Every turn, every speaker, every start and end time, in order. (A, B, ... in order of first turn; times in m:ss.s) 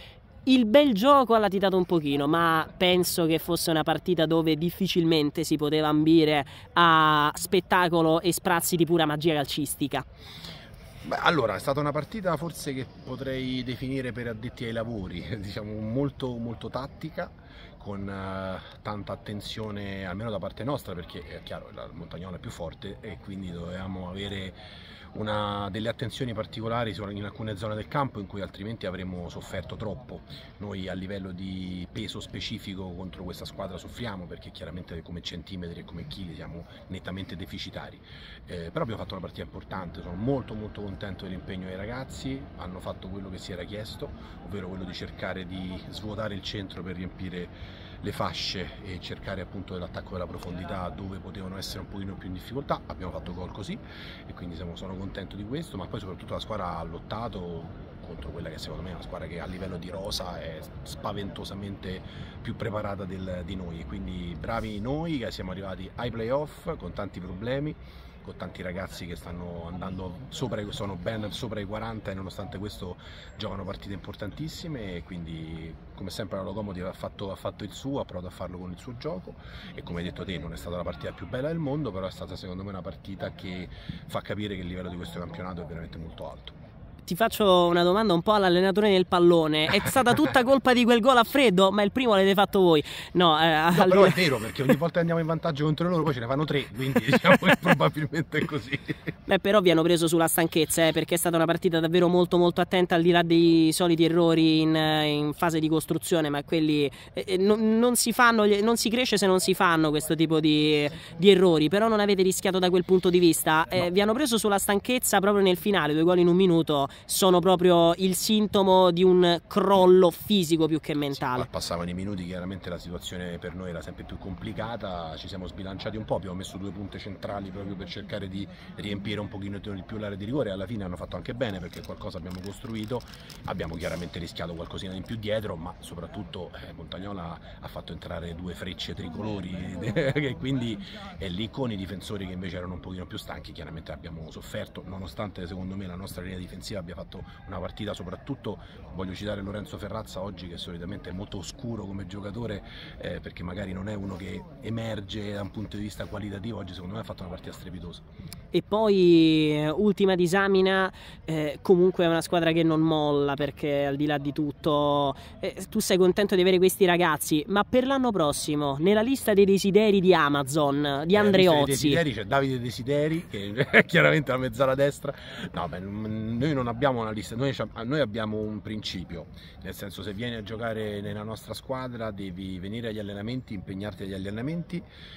0:00.5-0:10.1 A
0:11.0-0:24.6 B
0:25.1-1:26.6 B
1:27.1-1:34.3 A
1:33.8-1:39.1 B
1:39.3-2:01.5 A
2:01.2-2:38.1 B
2:38.5-2:52.0 A
2:51.1-3:04.8 B